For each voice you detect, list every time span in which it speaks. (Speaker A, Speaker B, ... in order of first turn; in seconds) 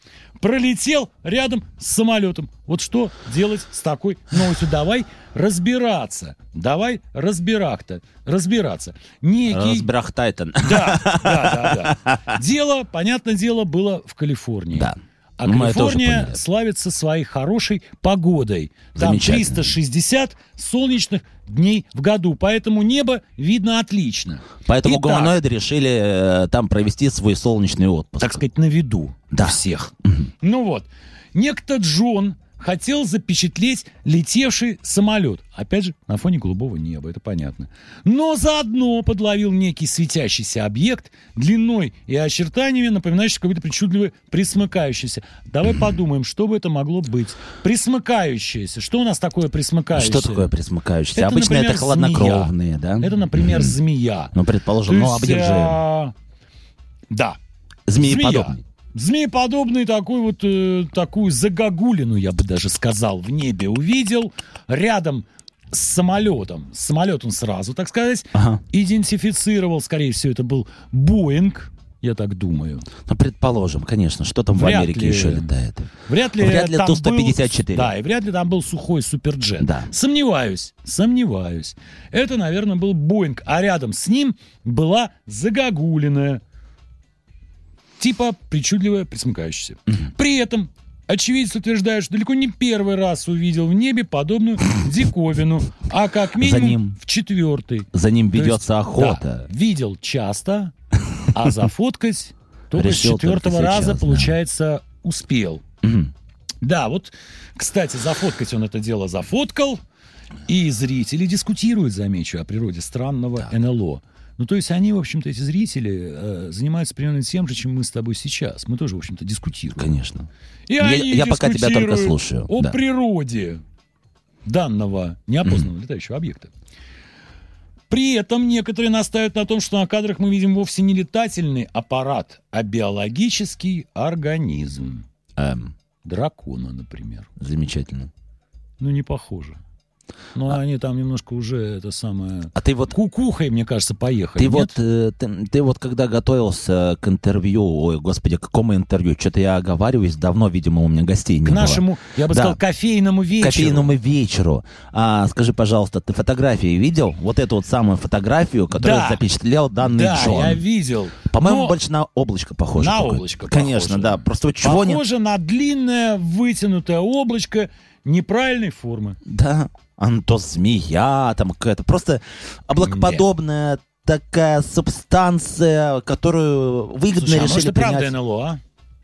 Speaker A: 0.4-9.9, 10.6-25.4, 28.2-50.5, 51.1-54.3, 54.9-56.1, 57.1-57.4, 58.0-72.9, 74.5-75.5, 76.0-86.4, 88.0-100.7, 101.3-105.6, 106.6-109.8, 110.5-119.9, 120.7-123.6, 124.4-126.5, 127.9-135.0, 136.0-137.3, 138.8-139.6, 140.3-144.8, 151.4-153.9, 158.7-159.2, 159.8-161.8, 162.7-169.2, 172.8-173.2, 177.1-178.6
Speaker B: 9.5-12.1, 14.7-16.4, 18.9-19.7, 24.6-28.4, 29.3-29.6, 49.9-53.7, 54.3-55.8, 57.9-58.6, 68.3-68.6, 73.1-77.9, 79.6-79.9, 96.4-97.0, 97.9-99.5, 102.7-104.3, 105.8-106.1, 119.8-122.8, 135.4-135.7, 137.4-138.1, 142.6-142.9, 144.4-152.6, 153.4-160.6, 161.3-165.0, 169.2-178.1